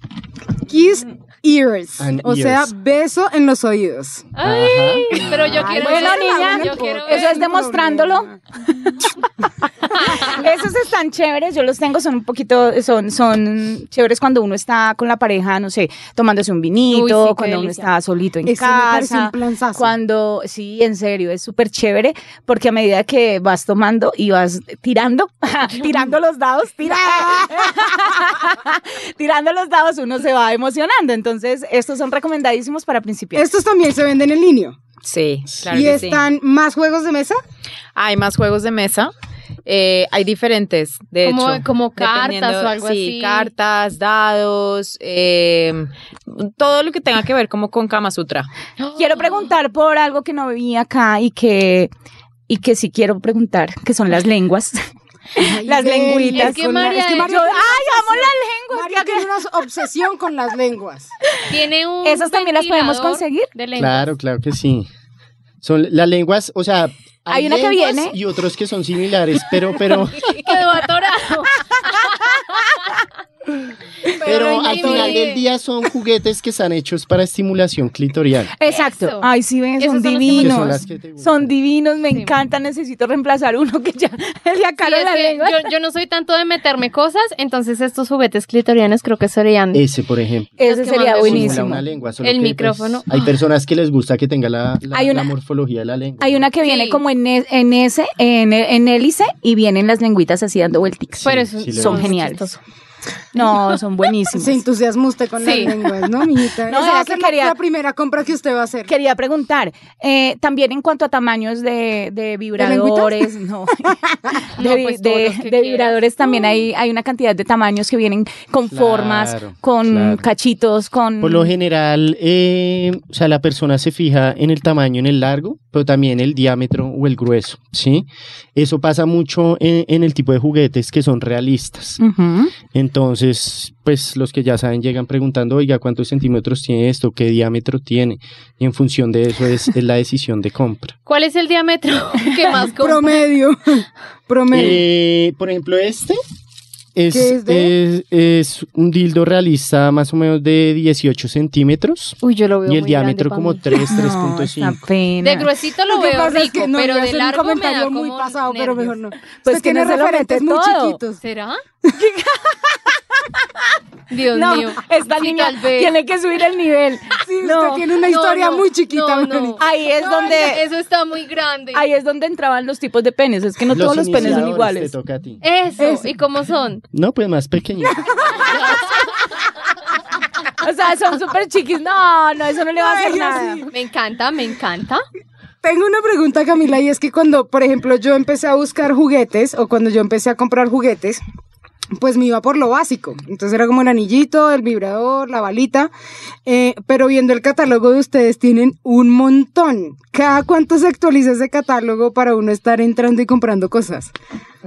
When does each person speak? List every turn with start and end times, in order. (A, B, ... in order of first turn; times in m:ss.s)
0:00.7-0:04.3 A
0:02.0-0:02.7 B
0:04.4-0:07.5 C
0:04.4-0:05.7 B
0:05.3-0:08.4 A
0:05.7-0:33.4 D
0:09.9-0:10.3 C
0:16.9-0:17.9 C
0:18.4-0:19.9 A
0:26.9-0:27.5 A
0:33.4-0:34.8 A
0:35.0-0:36.2 E
0:35.7-0:37.4 A
0:38.0-0:39.1 E
0:39.6-0:48.5 E
0:41.2-0:43.5 C
0:48.8-0:49.5 C
0:49.0-0:51.9 D
0:52.5-0:54.8 D
0:55.4-0:59.3 D
0:55.4-1:01.1 A
0:56.3-0:57.5 C
1:01.3-1:01.5 D
1:01.5-1:04.1 C
1:02.0-1:03.5 D
1:03.8-1:04.9 B
1:05.6-1:10.6 B
1:07.3-1:08.2 D
1:10.2-1:12.6 C
1:14.1-1:15.4 C
1:14.2-1:18.5 B
1:14.3-1:15.2 A
1:18.6-1:25.6 D
1:18.7-1:19.3 C
1:19.8-1:20.8 C
1:20.4-1:21.5 B
1:24.8-1:29.8 C
1:29.7-1:30.6 B
1:30.6-1:31.8 D
1:30.6-1:31.7 C
1:31.2-1:36.4 B
1:32.2-1:33.0 C
1:34.9-1:35.3 D
1:36.2-1:42.4 D
1:36.6-1:37.0 C
1:41.2-1:42.6 C
1:41.2-1:42.1 B
1:43.3-1:44.6 D
1:44.3-1:48.9 A
1:45.4-1:45.7 C
1:46.6-1:47.6 D
1:48.9-1:53.9 D
1:52.6-1:53.4 A
1:54.6-1:56.3 C
1:54.6-2:01.5 D
1:58.7-2:00.2 B
2:01.2-2:12.0 B
2:12.0-2:12.5 D
2:12.6-2:21.0 B
2:21.1-2:23.2 C
2:22.7-2:24.8 A
2:24.5-2:26.2 B
2:26.9-2:34.8 B
2:27.1-2:27.7 A
2:32.2-2:33.7 C
2:33.9-2:35.5 D
2:35.2-2:39.0 C
2:35.9-2:41.2 A
2:39.4-2:41.0 D
2:41.2-2:41.6 C
2:41.9-2:42.8 D
2:44.1-2:45.9 C
2:44.3-2:47.9 D
2:47.2-2:50.4 A
2:48.1-2:51.9 C
2:49.6-2:50.6 D
2:51.7-2:54.9 D
2:53.7-2:55.4 B
2:55.4-2:56.8 C
2:55.8-2:56.1 A
2:56.9-2:58.7 B
3:00.6-3:03.6 D
3:02.8-3:03.7 A
3:03.7-3:05.0 C
3:05.6-3:11.2 A
3:12.0-3:15.9 A
3:16.4-3:24.1 A